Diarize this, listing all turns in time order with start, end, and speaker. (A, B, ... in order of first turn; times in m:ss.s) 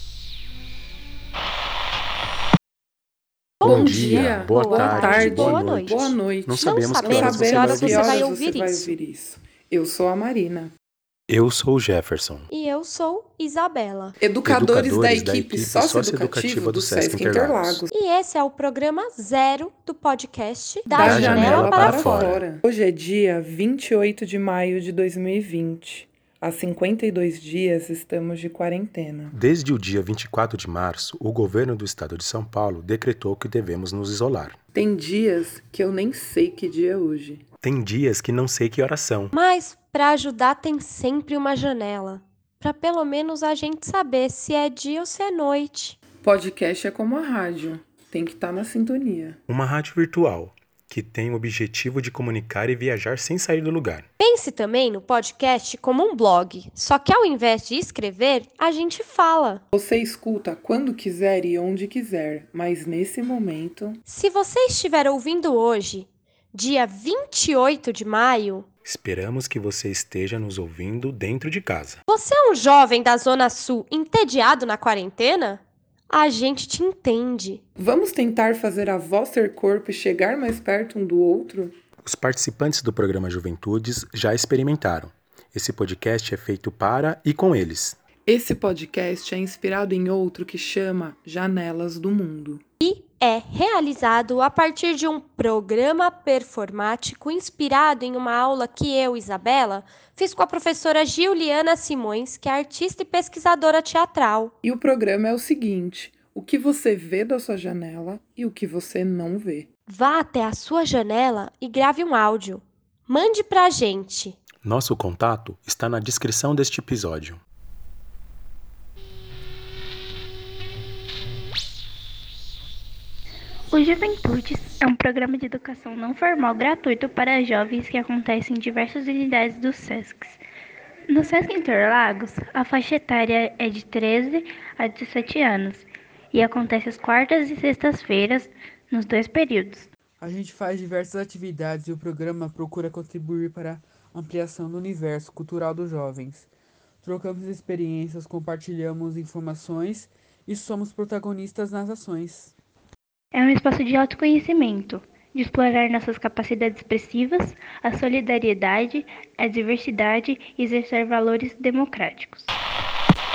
0:03.6-0:08.9 A
0:03.6-0:10.7 B
0:03.6-0:08.3 C
0:11.3-0:12.5 C
0:12.5-0:14.2 A
0:14.2-0:17.9 B
0:14.4-0:17.8 C
0:17.9-0:22.3 A
0:20.9-0:22.4 C
0:20.9-0:29.3 B
0:29.3-0:34.6 C
0:34.7-0:37.4 B
0:37.6-0:39.4 C
0:39.3-0:46.0 A
0:46.2-0:49.4 B
0:49.5-0:54.1 C
0:54.2-0:59.6 A
0:59.7-1:04.0 B
1:04.1-1:08.7 A
1:08.8-1:12.0 C
1:12.1-1:17.6 A
1:17.8-1:21.7 B
1:22.0-1:28.0 C
1:28.3-1:32.6 B
1:32.8-1:44.5 A
1:44.6-1:49.7 B
1:49.9-1:54.4 A
1:54.6-1:57.4 C
2:03.7-2:10.4 D
2:11.1-2:19.9 D
2:20.2-2:26.4 E
2:27.0-2:32.5 E
2:33.3-2:42.6 D